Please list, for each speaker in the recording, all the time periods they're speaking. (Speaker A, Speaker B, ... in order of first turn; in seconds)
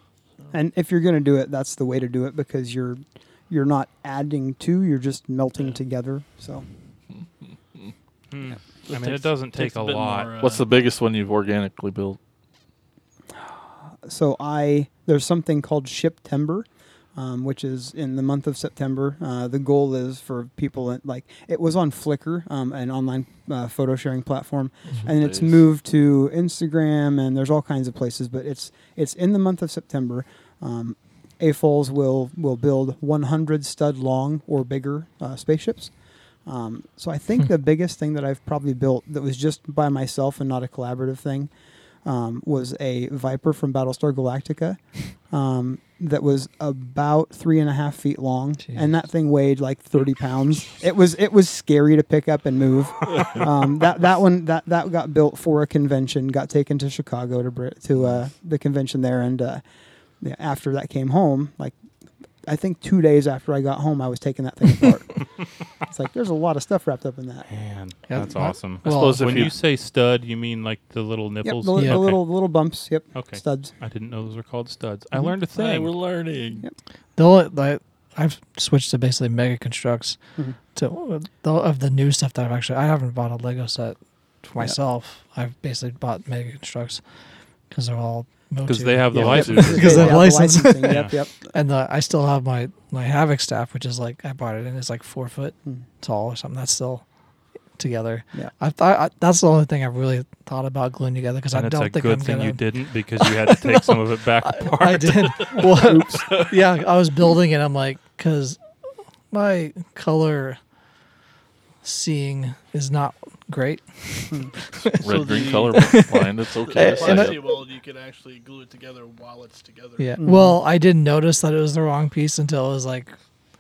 Speaker A: 0.5-6.7, 13.4-35.9, 36.5-41.5, 42.0-59.6, 60.2-61.8, 62.5-67.5, 71.4-73.7, 89.1-91.5, 105.6-106.3, 120.2-120.6
Speaker B: 8.3-10.3, 67.5-72.2, 73.1-75.9, 88.6-90.2, 90.9-91.1, 101.5-105.6
Speaker C: 8.8-10.8, 115.0-116.0, 116.6-120.2
Speaker D: 10.4-12.2, 25.1-25.6, 68.8-69.5, 75.5-76.7, 89.5-89.7, 115.0-117.5
Speaker E: 48.6-48.9, 68.1-69.5, 71.8-72.0, 77.2-80.2, 80.7-87.0, 87.7-97.0, 97.8-108.6, 109.3-110.6, 111.8-115.1, 115.8-117.5, 120.0-123.1